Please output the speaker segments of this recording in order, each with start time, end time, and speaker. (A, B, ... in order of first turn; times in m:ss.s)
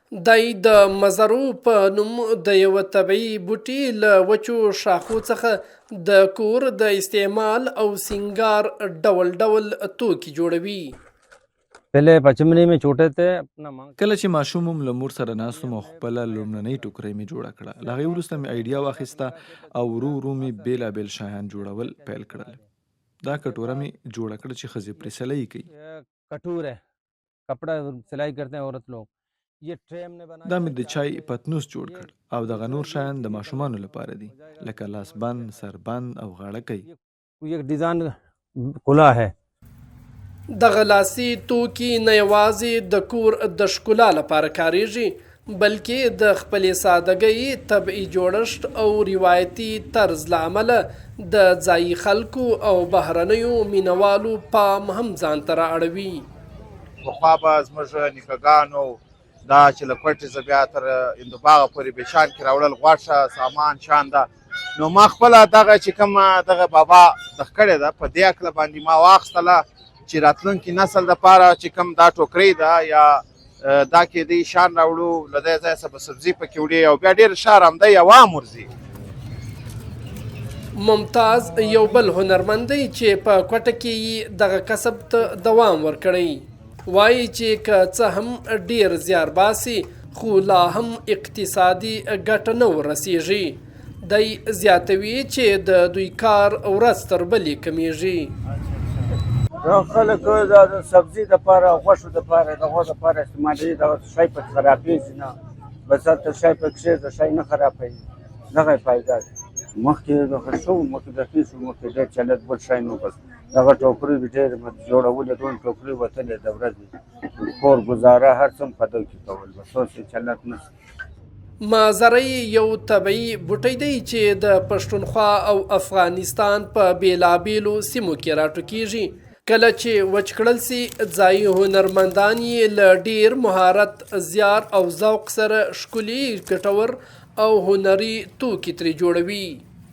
0:00.2-0:10.9 A
0:11.9-0:14.0 B
0:14.0-0:22.6 C
0:15.4-0:16.9 B
0:17.7-0:22.7 B
0:23.2-0:25.7 C
0:23.4-0:23.8 B
0:25.7-0:26.8 B
0:27.5-0:29.1 B
0:29.6-0:35.7 B
0:30.4-0:36.9 C
0:36.8-0:39.3 B
0:40.6-0:56.2 A
0:57.0-1:18.7 D
1:20.8-1:38.3 A
1:39.6-1:45.3 E
1:45.9-1:48.0 E
1:48.5-1:49.3 E
1:49.8-2:00.6 E
2:01.6-2:19.6 A